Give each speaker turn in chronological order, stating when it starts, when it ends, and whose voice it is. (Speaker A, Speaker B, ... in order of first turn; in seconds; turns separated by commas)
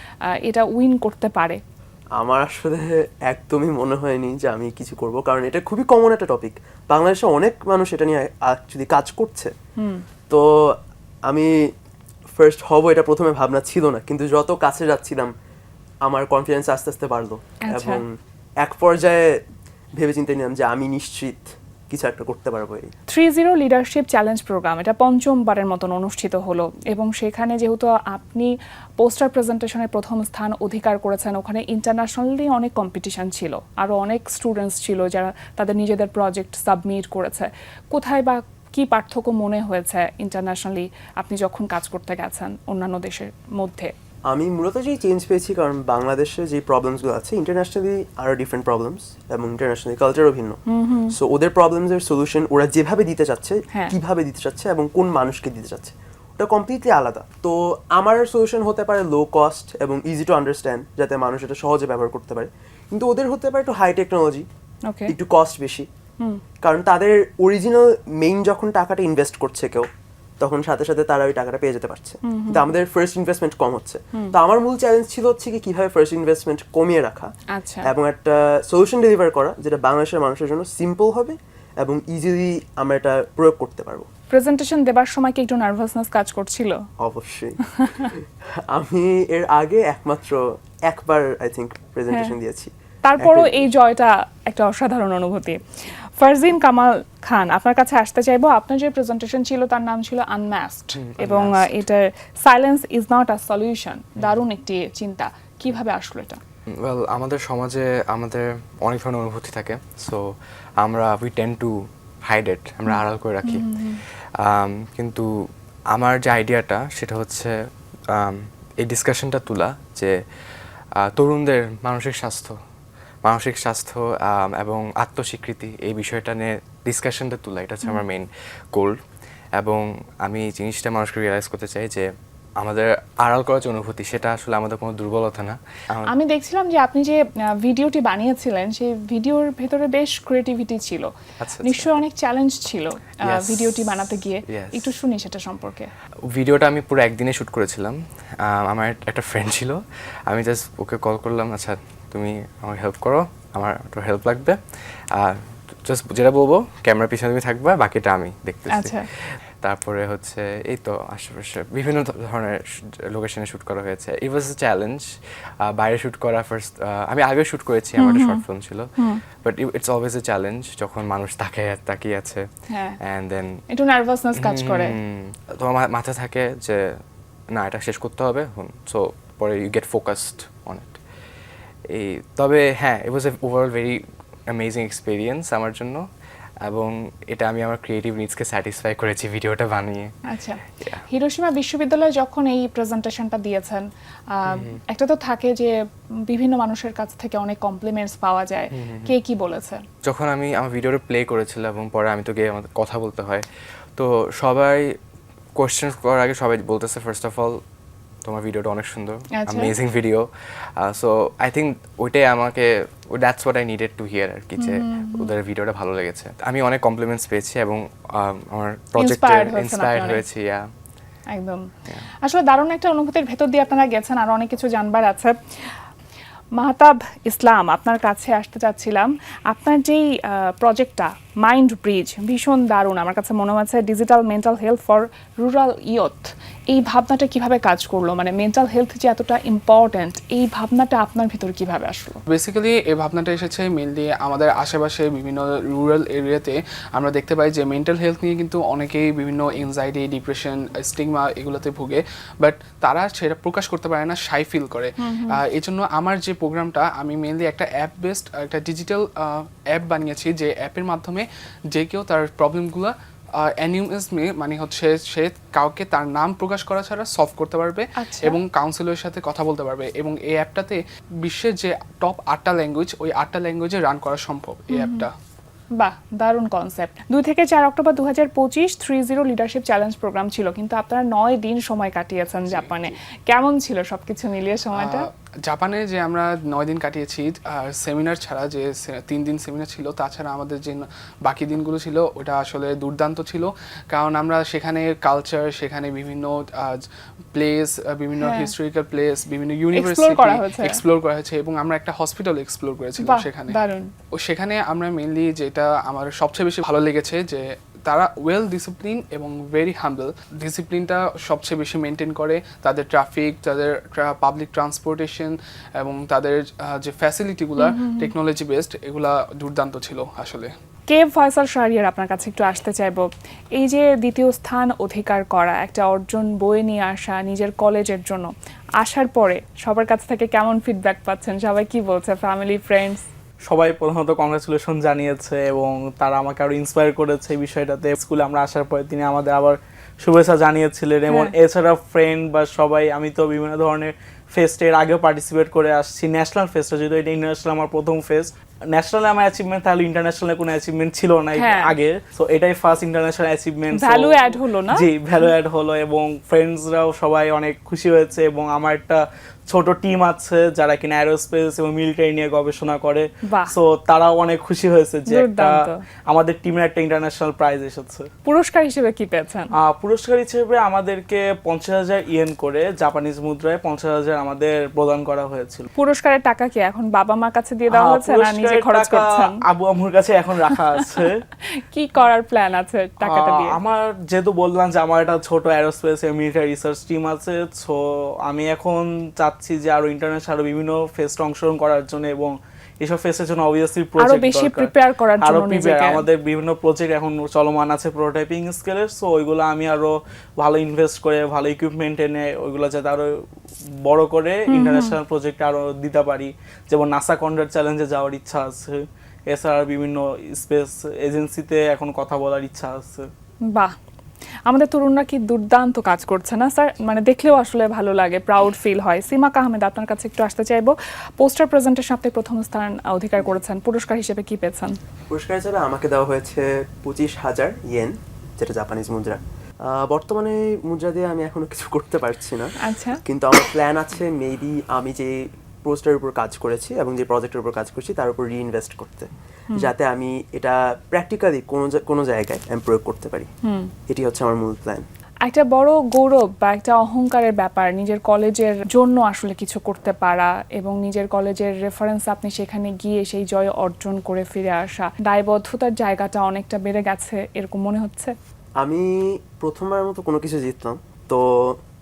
Speaker A: 0.4-1.6, Speaker B: 2.2-9.5, Speaker A: 9.8-10.0, Speaker B: 10.3-11.7, Speaker B: 12.4-15.3, Speaker B: 16.1-19.4, Speaker A: 17.7-18.0, Speaker B: 19.9-22.9, Speaker A: 23.1-43.9, Speaker B: 44.3-50.6, Speaker A: 50.7-51.1, Speaker B: 51.1-64.5, Speaker A: 64.9-65.1, Speaker B: 65.1-65.9, Speaker B: 66.6-69.9, Speaker B: 70.4-77.3, Speaker A: 72.2-72.6, Speaker A: 77.5-77.9, Speaker B: 77.8-84.1, Speaker A: 84.3-86.8, Speaker B: 87.0-93.7, Speaker A: 87.6-88.1, Speaker A: 93.0-106.4, Speaker C: 101.0-101.8, Speaker C: 106.8-113.7, Speaker A: 112.9-114.0, Speaker C: 114.4-115.3, Speaker C: 115.9-117.6, Speaker C: 118.1-120.2, Speaker C: 121.0-122.5, Speaker C: 123.2-129.0, Speaker C: 129.6-136.1, Speaker A: 136.1-141.1, Speaker C: 141.4-141.9, Speaker A: 141.6-145.9, Speaker C: 143.2-143.9, Speaker C: 144.5-144.9, Speaker C: 146.3-154.6, Speaker C: 155.1-165.1, Speaker A: 158.7-159.0, Speaker C: 165.7-172.5, Speaker A: 168.0-168.4, Speaker A: 172.7-173.0, Speaker C: 173.0-173.6, Speaker A: 173.7-174.9, Speaker C: 174.4-177.0, Speaker C: 177.5-181.0, Speaker C: 181.9-186.1, Speaker C: 186.6-190.1, Speaker A: 190.3-195.8, Speaker C: 190.7-191.0, Speaker C: 194.5-194.8, Speaker A: 196.3-199.8, Speaker C: 198.7-199.1, Speaker C: 200.0-204.9, Speaker C: 205.6-207.6, Speaker C: 208.2-220.7, Speaker A: 209.3-209.7, Speaker A: 214.6-215.3, Speaker A: 219.0-220.2, Speaker A: 221.3-221.7, Speaker A: 222.2-225.8, Speaker A: 226.6-242.2, Speaker D: 242.3-275.1, Speaker A: 255.0-255.4, Speaker A: 268.0-268.4, Speaker A: 274.7-275.1, Speaker A: 275.8-285.1, Speaker D: 282.5-282.9, Speaker D: 284.8-303.6, Speaker A: 298.2-298.5, Speaker A: 299.7-300.8, Speaker A: 303.0-303.9, Speaker D: 304.2-320.5, Speaker A: 317.6-318.1, Speaker A: 320.9-333.1, Speaker E: 333.5-368.1, Speaker A: 351.4-351.7, Speaker A: 353.8-355.3, Speaker A: 363.2-363.5, Speaker A: 365.1-365.8, Speaker A: 368.2-369.5, Speaker E: 369.6-375.7, Speaker A: 375.8-379.4, Speaker E: 377.7-381.2, Speaker A: 380.5-381.0, Speaker A: 381.7-383.6, Speaker E: 383.0-403.1, Speaker A: 394.0-396.0, Speaker E: 403.8-413.1, Speaker A: 404.5-404.9, Speaker A: 414.5-424.8, Speaker B: 425.1-443.3, Speaker A: 432.6-433.0, Speaker A: 443.4-443.7, Speaker B: 443.9-444.9, Speaker A: 445.3-458.1, Speaker B: 458.6-461.6